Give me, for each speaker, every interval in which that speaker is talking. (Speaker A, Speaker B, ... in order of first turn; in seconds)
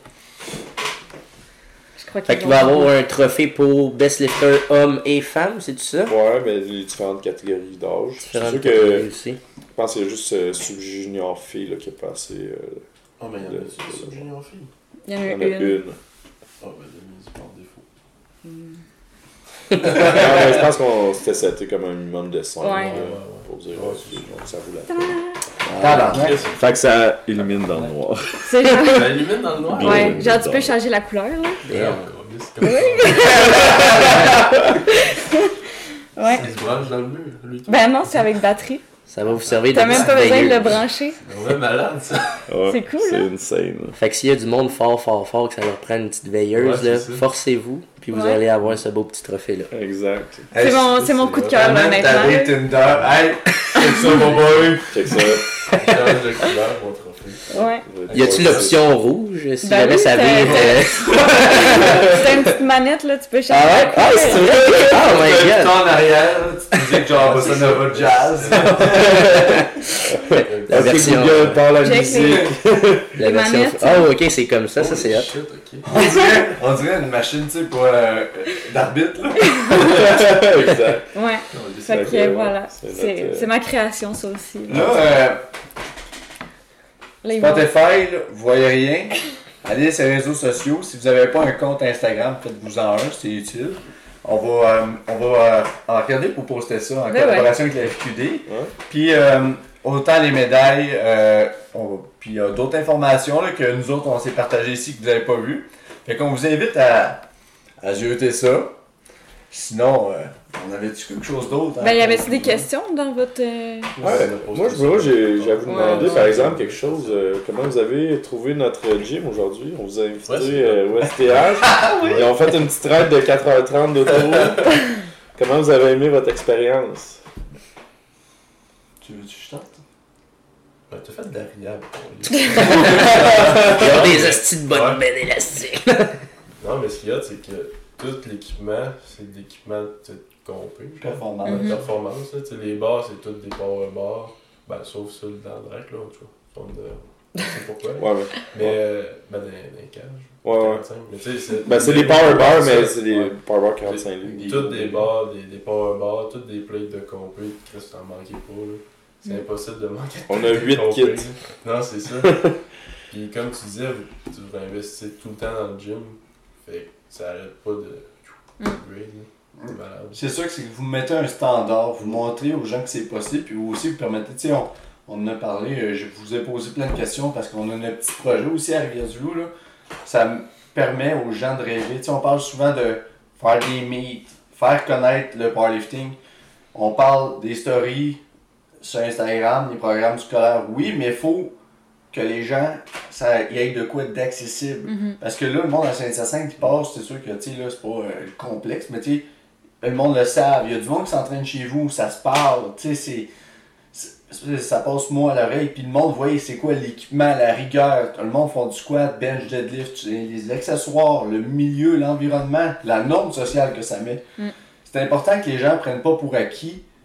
Speaker A: 2.0-2.9, 15.1-15.8, 18.4-18.8, 22.6-23.0, 24.9-25.4, 28.4-29.1, 29.7-31.6, 32.6-34.3, 34.9-35.5, 36.1-36.5, 37.6-38.8, 39.7-41.2, 42.6-43.3, 48.1-48.4, 50.5-52.6, 57.5-57.8, 59.6-64.6, 71.7-72.6, 73.1-74.1, 76.0-76.2, 81.1-85.2, 87.2-87.7, 97.1-97.5, 111.8-114.0, 115.7-116.4, 141.4-141.8, 194.8-195.2
Speaker B: 2.3-6.1, 8.2-9.4, 25.7-26.2, 31.7-32.0, 39.1-40.8, 44.0-49.7, 58.1-61.9, 63.5-65.8, 70.7-71.7, 73.2-75.3, 132.6-136.2
Speaker C: 6.0-9.1, 9.8-12.8, 13.4-14.2, 15.2-16.0, 19.9-25.2, 26.5-30.7, 33.2-34.5, 42.5-44.0, 49.7-50.5, 54.9-55.5, 57.6-58.8, 64.2-65.3, 68.7-69.5, 70.1-73.1, 79.8-83.5, 98.5-98.7, 114.0-124.8, 125.3-127.2, 133.4-133.8, 147.9-148.8, 150.4-150.8, 151.6-155.1, 160.3-161.3
Speaker D: 13.2-14.7, 16.6-17.9, 19.7-20.5, 22.8-24.5, 25.8-26.7, 27.3-28.0, 28.9-30.3, 31.6-34.4, 36.2-38.2, 39.2-42.5, 46.5-47.2, 50.8-52.3, 54.1-54.6, 55.7-58.8, 67.1-69.4, 70.2-71.7, 74.8-75.9, 113.9-117.2, 120.2-121.7, 130.9-135.0, 136.6-162.5, 163.1-170.2
Speaker E: 25.7-26.5, 50.5-50.9, 51.5-55.2, 60.4-62.1, 64.8-69.6, 72.0-72.5, 75.8-80.6, 81.5-82.3, 84.7-85.4, 87.3-107.2, 107.8-108.7, 109.5-112.7, 121.6-122.5, 129.0-129.8, 141.0-141.9, 154.3-154.6, 169.6-179.5, 180.0-186.2, 186.7-188.2, 188.8-191.5, 192.1-199.2, 199.8-203.3, 203.9-214.2, 214.8-216.8